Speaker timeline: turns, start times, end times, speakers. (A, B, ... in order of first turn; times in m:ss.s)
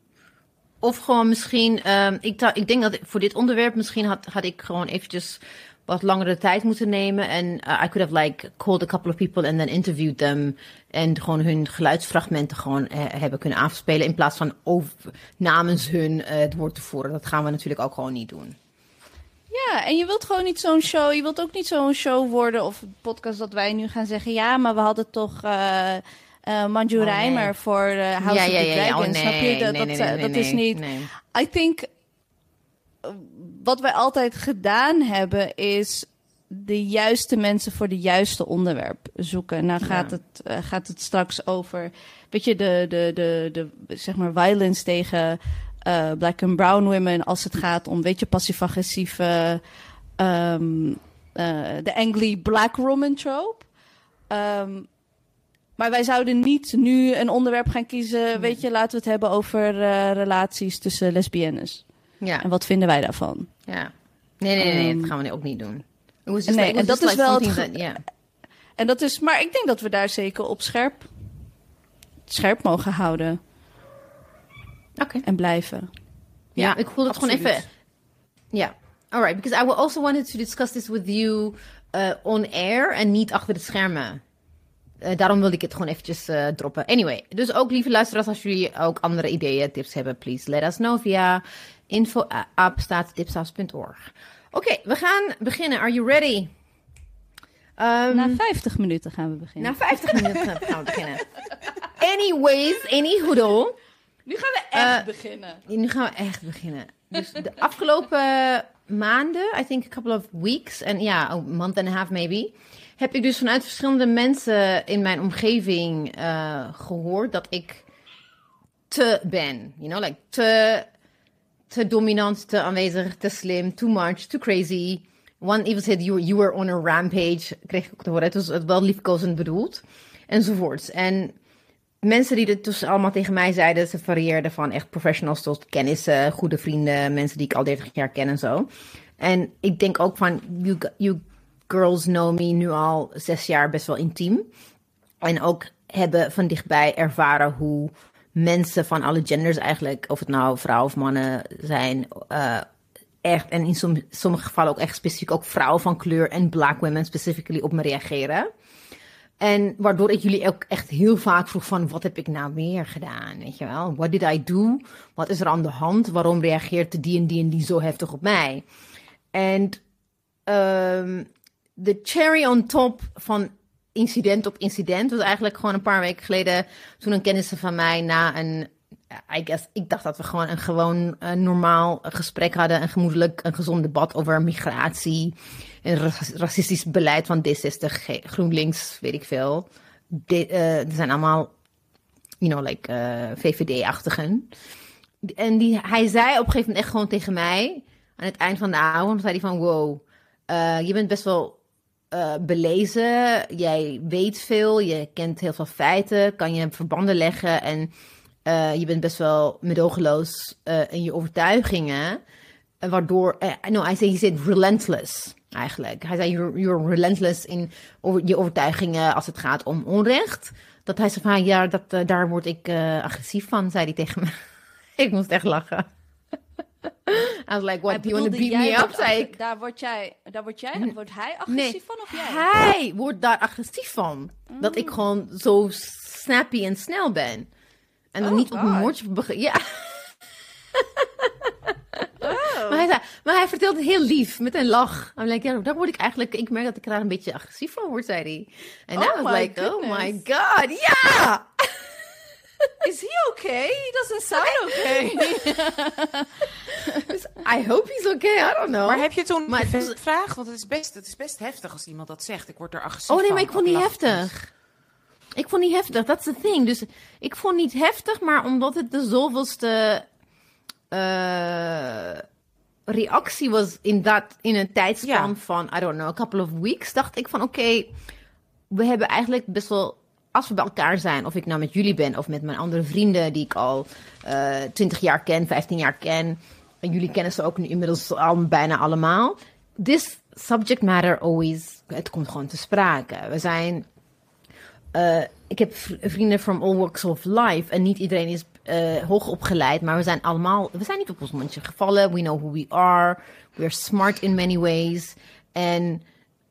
0:00.8-0:18.6 A
0:19.5-0:31.9 B
0:27.0-0:27.5 A
0:28.2-0:31.1 A
0:33.0-0:49.6 B
0:39.8-0:40.2 A
0:50.2-0:53.7 B
0:54.3-0:54.9 B
0:55.8-1:01.8 B
1:02.4-1:03.5 B
1:03.7-1:08.0 A
1:04.6-1:05.1 B
1:06.5-1:07.7 B
1:08.8-1:11.1 B
1:12.3-1:13.4 B
1:15.0-1:15.2 A
1:15.2-1:15.9 B
1:16.6-1:17.6 A
1:17.1-1:17.6 C
1:18.5-1:24.2 A
1:25.0-1:36.5 A
1:37.8-1:38.4 A
1:38.1-1:40.6 B
1:39.6-1:41.3 A
1:41.9-1:43.8 A
1:44.3-1:45.6 B
1:44.7-1:45.1 A
1:45.7-1:57.8 A
1:58.9-2:00.9 A
2:01.7-2:11.4 A
2:12.0-2:24.5 A
2:25.2-2:32.7 A
2:33.2-2:38.5 A
2:39.4-2:48.6 A
2:49.3-2:49.8 A
2:50.5-3:11.5 A
3:12.4-3:14.5 A
3:15.2-3:21.6 A
3:22.1-3:27.9 A
3:28.4-3:32.2 A
3:32.8-3:44.4 A
3:45.0-3:45.9 A
3:46.8-3:49.3 A
3:47.9-3:52.5 B
3:51.5-3:57.5 A
3:54.5-3:55.0 B
3:58.1-4:00.1 A
3:58.2-3:58.9 B
4:00.7-4:11.9 A
4:02.2-4:02.9 B
4:09.0-4:10.2 B
4:12.8-4:17.1 B
4:14.4-4:15.5 A
4:17.0-4:20.0 A
4:18.8-4:24.4 C
4:23.1-4:24.4 A
4:25.4-4:30.0 A
4:30.9-4:32.2 A
4:32.9-4:37.9 A
4:35.0-4:35.3 C
4:38.7-4:53.9 A
4:54.9-5:06.0 A